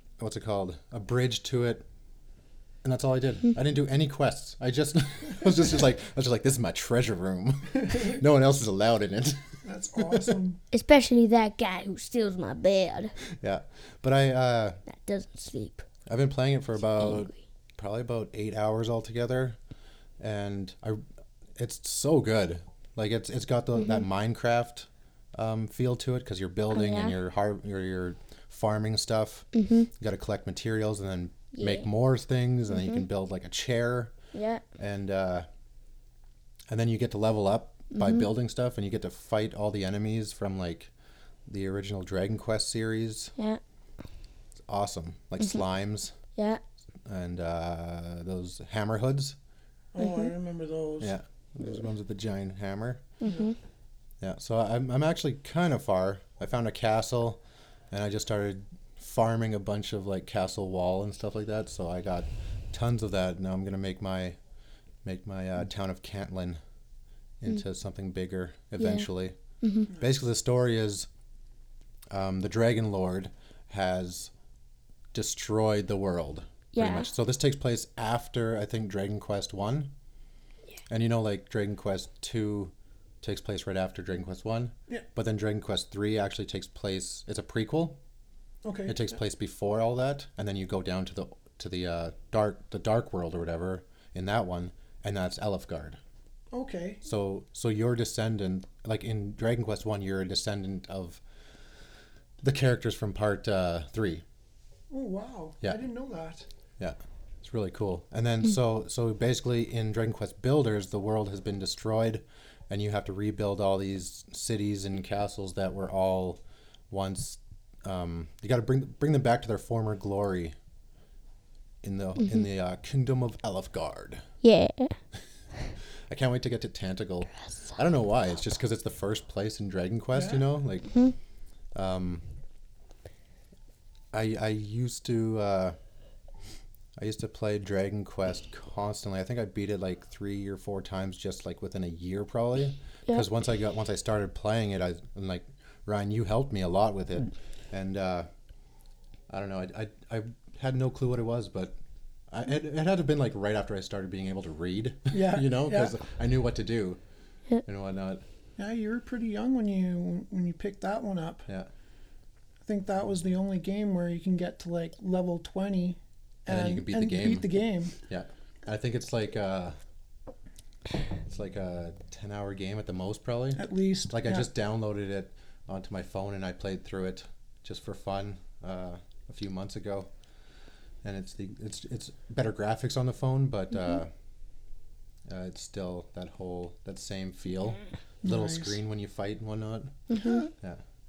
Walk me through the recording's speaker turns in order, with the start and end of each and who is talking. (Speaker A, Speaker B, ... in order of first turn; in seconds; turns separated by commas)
Speaker A: 0.2-1.9, Speaker A: 2.8-10.4, Speaker B: 9.6-10.6, Speaker C: 10.7-13.2, Speaker A: 13.4-14.8, Speaker C: 14.9-15.8, Speaker A: 16.1-19.6, Speaker C: 17.0-17.4, Speaker A: 20.2-21.0, Speaker A: 21.6-29.5, Speaker C: 23.8-24.0, Speaker C: 26.7-27.2, Speaker C: 29.5-29.9, Speaker A: 30.0-34.1, Speaker C: 31.5-31.9, Speaker C: 32.7-33.0, Speaker C: 34.3-34.6, Speaker A: 34.8-35.5, Speaker A: 36.7-40.9, Speaker C: 37.9-38.3, Speaker A: 41.5-43.3, Speaker A: 44.7-46.1, Speaker C: 46.4-46.6, Speaker A: 47.1-49.4, Speaker B: 49.9-51.1, Speaker C: 50.0-50.3, Speaker A: 51.0-53.0, Speaker C: 53.2-53.6, Speaker A: 54.2-64.4, Speaker A: 65.0-66.6, Speaker A: 67.4-69.4, Speaker C: 68.8-69.1, Speaker C: 69.6-69.9, Speaker A: 69.9-71.1, Speaker A: 72.1-74.3, Speaker A: 75.1-79.9, Speaker C: 76.7-77.1, Speaker A: 80.9-88.0, Speaker B: 88.7-89.1, Speaker A: 88.9-96.0, Speaker B: 96.5-97.0, Speaker A: 97.0-101.2, Speaker A: 102.4-104.2, Speaker B: 104.9-106.5, Speaker A: 106.8-120.6, Speaker A: 121.8-124.2, Speaker C: 124.4-125.0, Speaker A: 126.1-130.9, Speaker B: 130.2-130.4, Speaker A: 131.8-132.2, Speaker A: 134.1-135.8, Speaker A: 137.0-148.3, Speaker A: 149.3-151.8, Speaker A: 152.3-157.0, Speaker B: 155.1-156.0, Speaker A: 157.7-158.2, Speaker B: 158.6-161.5, Speaker B: 162.7-168.0, Speaker A: 166.5-167.5, Speaker A: 168.0-169.8, Speaker A: 171.3-180.1, Speaker B: 173.6-174.5, Speaker A: 181.0-184.1, Speaker A: 185.3-190.0, Speaker B: 188.2-188.8, Speaker C: 190.1-190.4, Speaker B: 190.2-190.5